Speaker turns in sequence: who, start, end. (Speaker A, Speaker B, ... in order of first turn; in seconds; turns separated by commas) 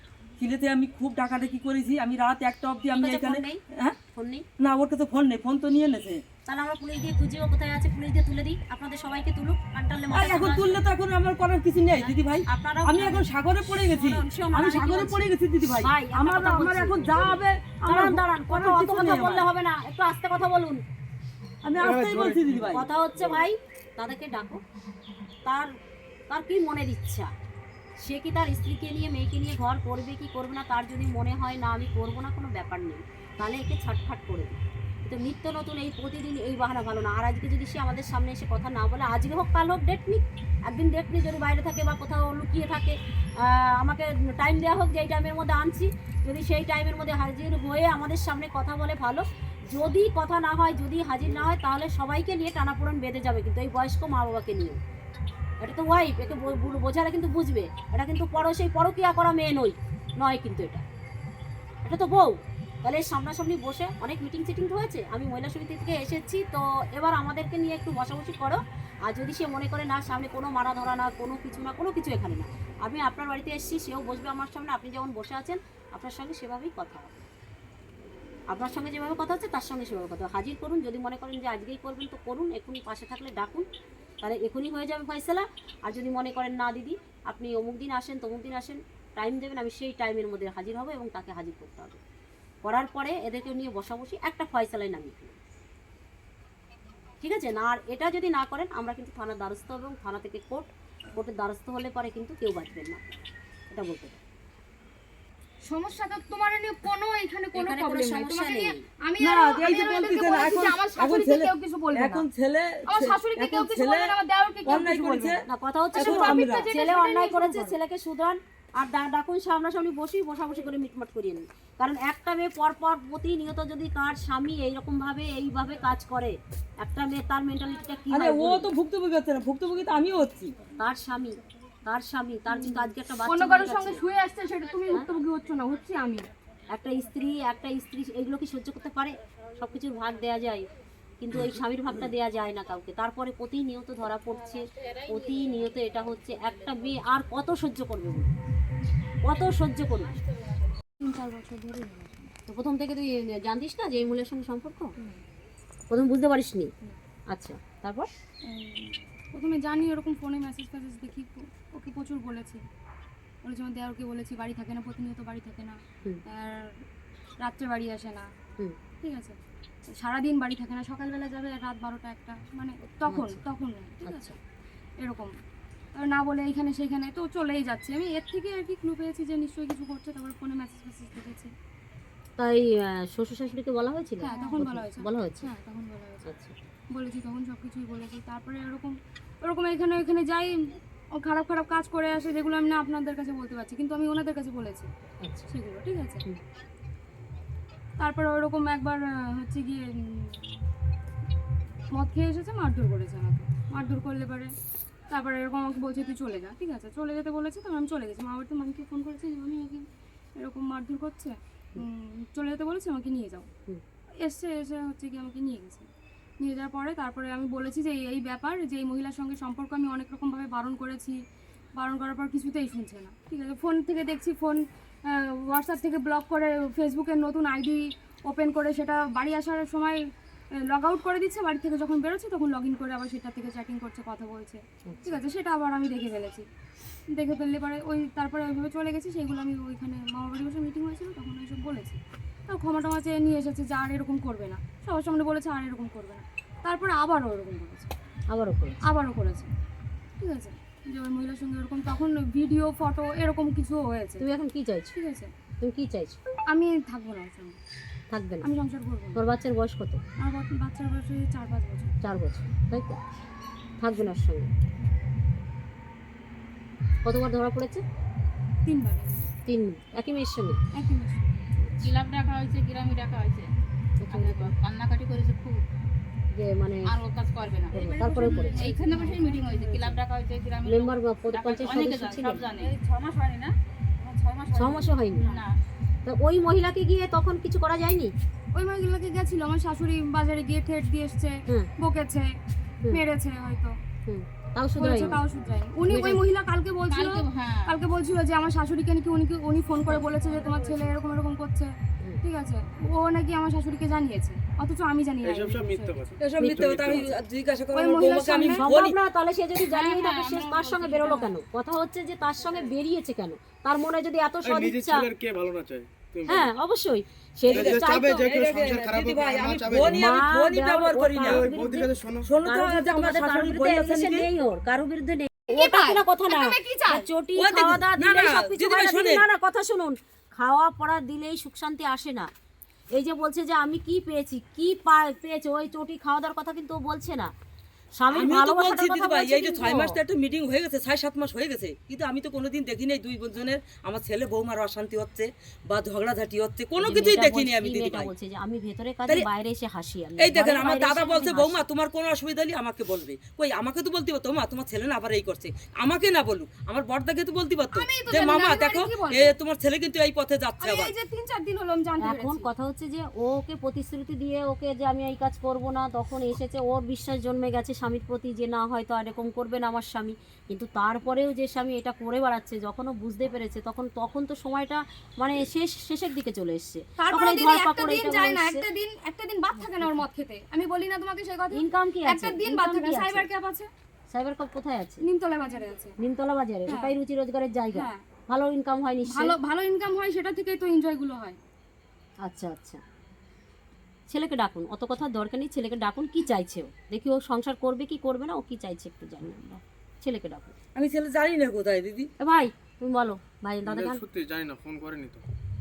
Speaker A: 0.4-4.0, Speaker B: 3.0-3.6, Speaker B: 4.1-4.5, Speaker A: 4.6-6.2, Speaker B: 6.5-10.8, Speaker A: 10.1-19.5, Speaker B: 12.0-15.2, Speaker B: 15.8-20.8, Speaker A: 21.6-22.9, Speaker C: 21.8-23.5, Speaker B: 22.7-24.6, Speaker B: 26.3-27.3, Speaker B: 28.0-54.8, Speaker B: 55.6-60.8, Speaker B: 61.9-62.3, Speaker B: 62.8-77.1, Speaker B: 78.5-83.7, Speaker B: 84.2-92.0, Speaker B: 92.6-95.4, Speaker B: 97.2-104.2, Speaker D: 105.7-112.3, Speaker B: 107.5-108.9, Speaker A: 109.2-114.1, Speaker D: 112.9-115.4, Speaker A: 114.7-116.7, Speaker B: 115.5-128.7, Speaker D: 115.9-117.8, Speaker A: 128.1-130.6, Speaker B: 130.8-134.0, Speaker D: 133.3-136.3, Speaker B: 136.7-140.7, Speaker B: 141.2-148.3, Speaker E: 144.5-147.0, Speaker B: 149.2-150.2, Speaker D: 151.0-152.3, Speaker B: 152.5-154.9, Speaker B: 155.9-156.7, Speaker B: 157.3-158.1, Speaker D: 158.5-162.6, Speaker D: 163.4-166.8, Speaker D: 167.4-168.3, Speaker D: 169.0-169.4, Speaker D: 169.9-174.4, Speaker B: 173.1-173.4, Speaker B: 174.0-174.4, Speaker D: 175.0-175.3, Speaker D: 176.0-181.5, Speaker B: 182.4-185.5, Speaker D: 184.2-186.3, Speaker E: 184.3-184.6, Speaker B: 186.2-186.6, Speaker D: 186.9-194.9, Speaker B: 195.2-195.5, Speaker D: 195.5-196.2, Speaker D: 198.0-200.6, Speaker D: 201.9-204.5, Speaker D: 205.1-209.9, Speaker D: 210.4-213.5, Speaker D: 214.2-215.9, Speaker D: 216.4-221.2, Speaker D: 221.8-230.0, Speaker D: 230.7-236.4, Speaker B: 234.9-235.2, Speaker D: 237.1-247.9, Speaker B: 248.3-248.8, Speaker D: 248.8-249.5, Speaker D: 250.2-254.2, Speaker B: 254.2-254.9, Speaker D: 254.9-255.3, Speaker B: 255.6-256.2, Speaker D: 256.5-257.6, Speaker B: 258.1-258.5, Speaker D: 258.4-259.2, Speaker B: 259.1-260.0, Speaker D: 260.2-261.9, Speaker B: 262.0-263.0, Speaker B: 263.8-264.5, Speaker B: 267.0-267.8, Speaker D: 268.6-269.3, Speaker B: 269.5-270.6, Speaker D: 270.7-271.4, Speaker B: 271.6-271.9, Speaker E: 271.8-273.5, Speaker B: 274.0-274.5, Speaker E: 274.1-275.6, Speaker B: 276.3-276.9, Speaker E: 276.9-285.6, Speaker B: 277.7-278.7, Speaker D: 277.7-279.7, Speaker B: 280.7-282.5, Speaker B: 284.5-285.4, Speaker B: 286.1-288.1, Speaker D: 288.6-292.3, Speaker D: 292.9-293.8, Speaker B: 294.1-295.2, Speaker D: 294.8-301.7, Speaker B: 295.9-296.2, Speaker E: 296.9-297.8, Speaker E: 299.9-301.0, Speaker D: 302.2-306.3, Speaker C: 305.2-307.1, Speaker A: 306.2-308.9, Speaker B: 306.4-307.1, Speaker D: 307.7-308.7, Speaker B: 308.4-315.1, Speaker E: 309.6-311.3, Speaker D: 311.1-311.3, Speaker C: 314.4-316.5, Speaker B: 316.3-318.2, Speaker A: 317.5-321.5, Speaker C: 317.5-320.2, Speaker B: 319.8-321.9, Speaker C: 321.2-322.3, Speaker A: 322.2-324.3, Speaker B: 322.4-332.3, Speaker D: 325.5-327.1, Speaker A: 327.4-329.2, Speaker B: 332.9-337.3, Speaker B: 338.0-340.0, Speaker A: 338.1-348.1, Speaker B: 346.8-351.6, Speaker A: 350.2-360.9, Speaker D: 357.7-359.4, Speaker D: 360.6-362.5, Speaker B: 362.0-378.6, Speaker D: 377.0-383.7, Speaker B: 381.5-383.3, Speaker B: 384.1-385.0, Speaker D: 385.0-385.9, Speaker B: 386.0-389.4, Speaker D: 386.7-386.9, Speaker D: 387.7-388.0, Speaker D: 389.1-391.4, Speaker B: 392.2-392.8, Speaker B: 394.1-400.5, Speaker A: 400.8-402.1, Speaker B: 402.2-404.0, Speaker C: 403.7-405.2